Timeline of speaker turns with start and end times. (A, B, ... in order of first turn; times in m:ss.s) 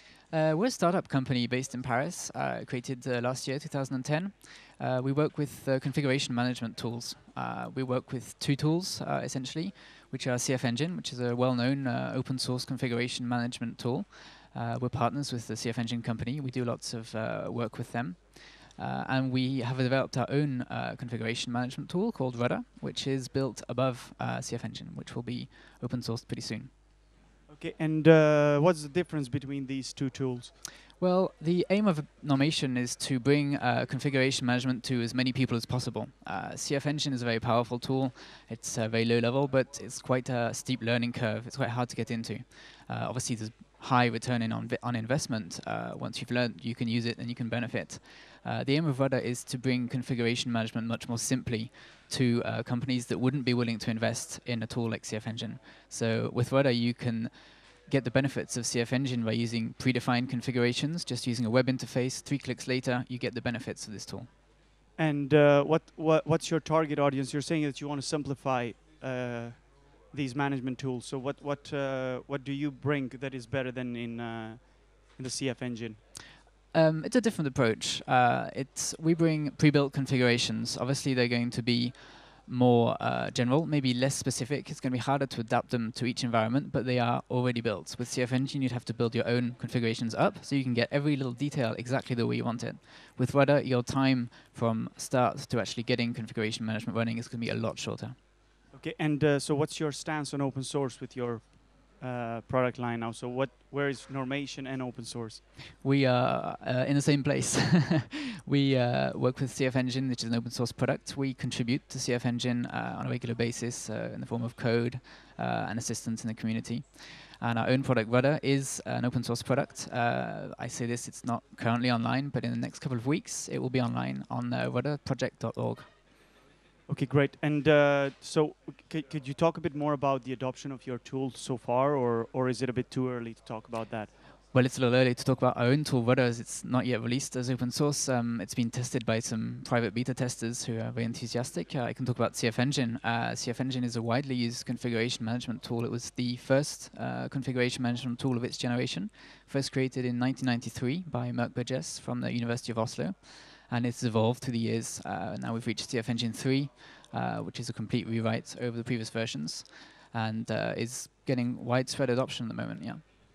0:00.2-0:26.8 A
0:27.5-0:30.6 B
0:31.0-1:04.4 A
1:05.0-1:16.0 B
1:16.6-1:38.2 A
1:38.7-1:45.4 B
1:45.8-2:06.0 A
2:06.9-2:14.2 B
2:14.4-2:43.1 A